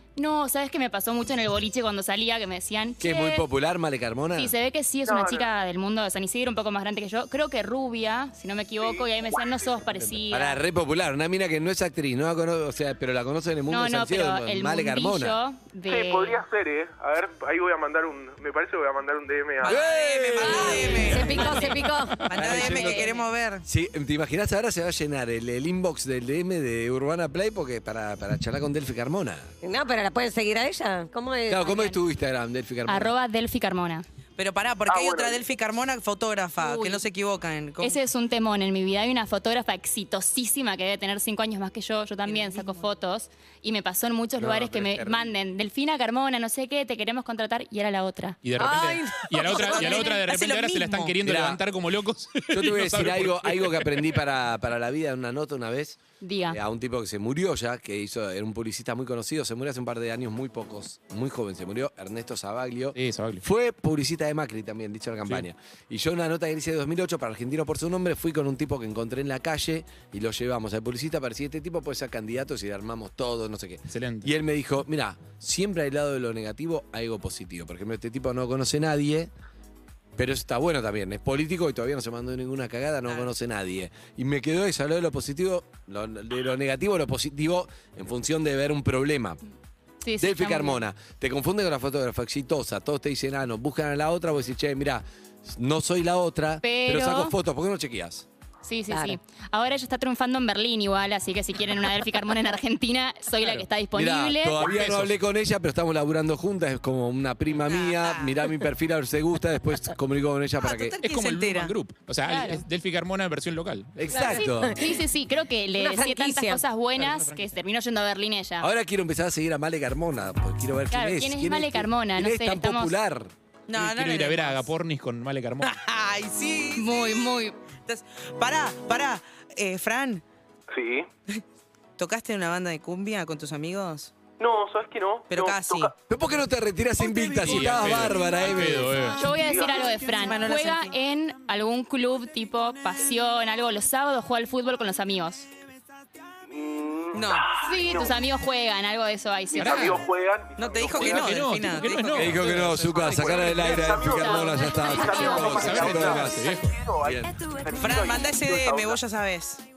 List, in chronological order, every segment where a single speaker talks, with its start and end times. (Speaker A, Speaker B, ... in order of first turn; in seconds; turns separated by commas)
Speaker A: 0.2-3.4, Speaker B: 3.0-4.5, Speaker A: 4.3-10.6, Speaker C: 5.0-5.5, Speaker C: 8.8-9.1, Speaker B: 10.1-15.4, Speaker A: 13.7-16.4, Speaker C: 15.7-19.8, Speaker D: 19.6-23.6, Speaker B: 19.7-21.5, Speaker E: 20.4-22.4, Speaker B: 22.3-23.1, Speaker A: 22.5-23.3, Speaker B: 23.6-29.5, Speaker E: 29.6-32.0, Speaker B: 31.5-33.1, Speaker A: 32.9-34.0, Speaker D: 34.4-38.0, Speaker C: 34.9-35.5, Speaker A: 36.6-37.0, Speaker A: 37.8-48.4, Speaker D: 42.2-42.9, Speaker B: 44.4-45.3, Speaker F: 48.4-54.1, Speaker E: 48.5-50.2, Speaker D: 49.4-51.1, Speaker A: 49.9-50.2, Speaker B: 51.2-51.6, Speaker B: 52.5-79.3, Speaker A: 56.2-56.6, Speaker F: 62.9-63.4, Speaker F: 73.9-74.3, Speaker B: 80.2-89.4, Speaker A: 90.0-90.8, Speaker B: 90.2-98.2, Speaker A: 96.6-97.3, Speaker A: 98.6-104.7, Speaker E: 98.9-99.2, Speaker F: 103.4-103.7, Speaker B: 103.9-110.9, Speaker F: 104.6-105.1, Speaker D: 107.7-108.4, Speaker D: 110.6-111.7, Speaker F: 111.0-113.9, Speaker A: 112.2-112.6, Speaker B: 114.0-114.8, Speaker E: 114.1-114.9, Speaker A: 114.8-118.7, Speaker E: 115.8-116.6, Speaker F: 117.0-117.3, Speaker B: 118.6-123.3, Speaker A: 120.9-123.0, Speaker D: 123.7-124.7, Speaker F: 123.7-125.8, Speaker D: 125.6-130.2, Speaker A: 126.8-127.5, Speaker C: 130.7-131.1, Speaker D: 132.0-134.1, Speaker C: 134.4-135.9, Speaker D: 135.3-135.9, Speaker B: 136.1-139.0, Speaker F: 137.4-139.2, Speaker A: 139.0-145.5, Speaker C: 139.3-140.0, Speaker D: 140.0-140.9, Speaker C: 146.5-148.1, Speaker D: 147.1-147.6, Speaker A: 147.6-150.0, Speaker C: 149.5-151.9, Speaker F: 149.5-150.0, Speaker D: 150.6-153.9, Speaker F: 151.1-153.1, Speaker B: 152.1-156.5, Speaker C: 153.0-159.0, Speaker A: 153.6-155.5, Speaker F: 155.4-156.8, Speaker E: 157.3-157.6, Speaker D: 157.8-159.6